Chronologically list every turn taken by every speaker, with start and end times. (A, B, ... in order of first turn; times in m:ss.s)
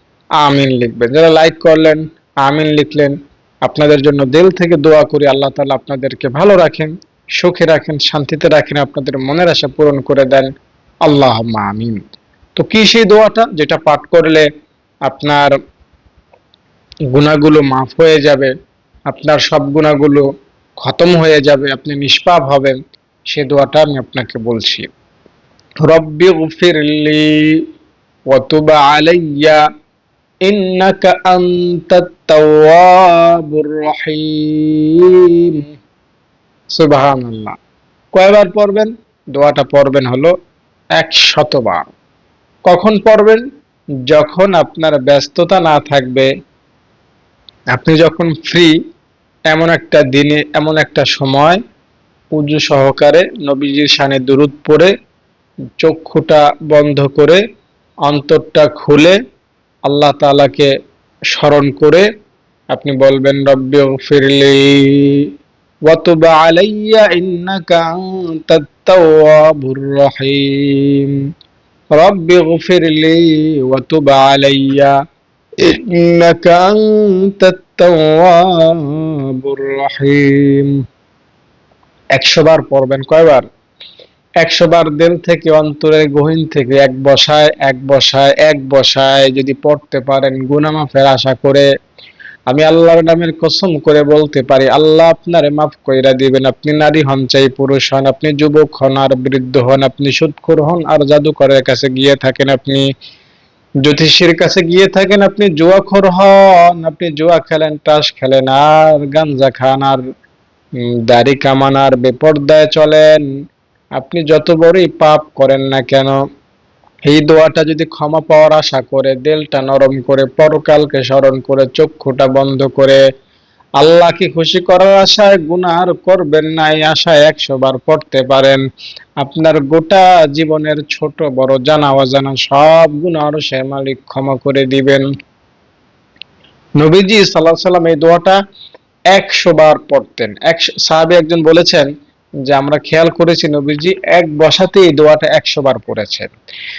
0:00.4-0:10.5 A
0:11.0-0:12.0 A
0:12.6-0:14.5 A
0:15.1-0:15.5 A
0:17.1-0:18.5 A
0:19.1-0:20.2 A
0:20.8-0:22.8 A
0:23.3-0:24.9 A
0:25.8-0:27.6 A
0:28.3-0:29.6 A
0:30.4-0:35.6 A
0:36.8-0:37.6 A
0:38.1-0:40.3 A
0:41.0-0:41.9 A
0:42.7-0:43.4 A
0:44.1-0:46.3 A
0:47.7-0:48.7 A
0:49.5-0:51.6 A
0:52.4-0:54.9 A
0:55.8-0:57.4 A
0:58.1-0:59.2 A
0:59.9-1:00.7 A
1:01.3-1:02.1 A
1:02.7-1:05.2 A
1:05.9-1:11.2 A
1:11.9-1:14.9 A
1:15.6-1:20.7 A
1:22.1-1:23.4 A
1:24.4-1:31.7 A
1:32.5-1:42.8 A
1:43.8-1:50.0 A
1:51.1-1:53.2 A
1:54.0-1:56.2 A
1:57.1-2:03.0 A
2:03.8-2:08.6 A
2:09.2-2:15.1 A
2:16.8-2:18.4 A
2:19.1-2:21.9 A
2:22.5-2:26.3 A